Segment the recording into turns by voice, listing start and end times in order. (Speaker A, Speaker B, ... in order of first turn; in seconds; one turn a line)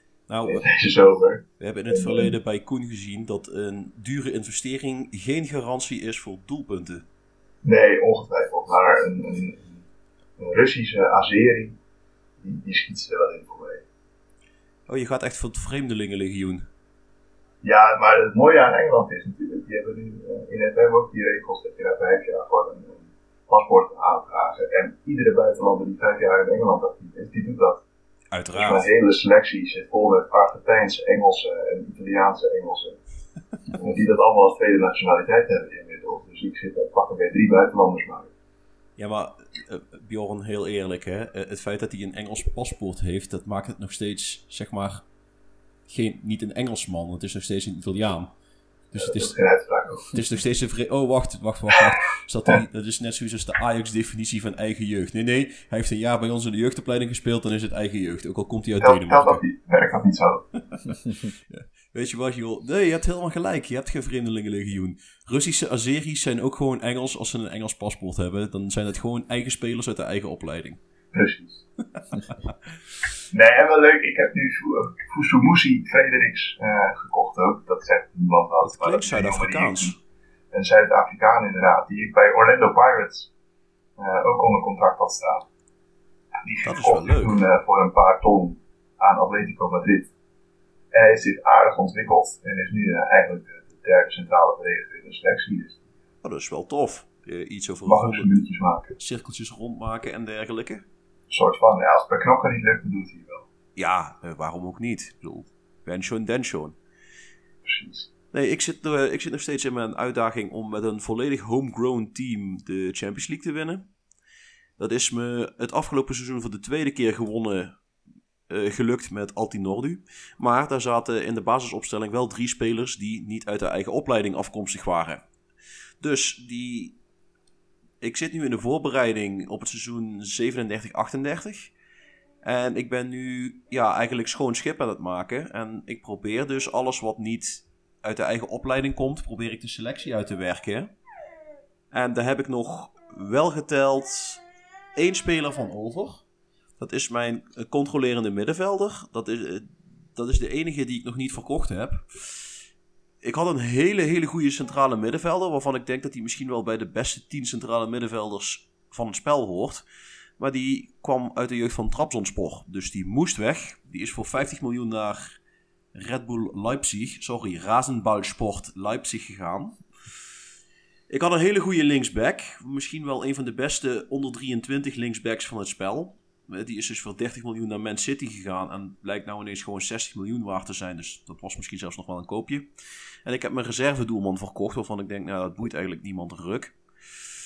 Speaker A: 0.3-0.7
Speaker B: 0.5-2.3
Speaker A: 1.6-7.0
Speaker B: 7.6-9.8
Speaker B: 10.4-11.8
Speaker B: 12.4-13.8
Speaker A: 14.9-16.7
Speaker B: 17.6-27.8
Speaker A: 28.3-28.9
Speaker B: 28.5-33.0
Speaker B: 33.7-38.3
Speaker A: 39.0-45.0
Speaker A: 45.9-48.3
Speaker A: 48.9-49.4
Speaker B: 49.0-50.2
Speaker A: 50.1-59.4
Speaker B: 58.8-60.5
Speaker A: 61.5-70.8
Speaker B: 71.1-71.6
Speaker B: 73.3-80.0
Speaker A: 78.6-80.0
Speaker B: 80.5-83.3
Speaker B: 84.0-85.5
Speaker B: 86.4-90.1
Speaker A: 86.6-87.4
Speaker B: 90.9-95.8
Speaker A: 96.2-98.3
Speaker B: 97.8-99.0
Speaker A: 99.0-100.8
Speaker B: 101.3-103.5
Speaker A: 103.8-106.8
Speaker B: 107.6-108.1
Speaker A: 108.3-113.9
Speaker A: 114.8-117.8
Speaker A: 118.5-125.2
Speaker A: 126.0-127.0
Speaker A: 128.0-131.7
Speaker A: 132.4-140.9
Speaker A: 141.9-144.4
Speaker A: 144.9-146.2
Speaker A: 146.8-152.4
Speaker A: 153.2-159.8
Speaker A: 160.4-165.4
Speaker A: 165.9-169.8
Speaker A: 171.1-182.7
Speaker A: 183.2-186.7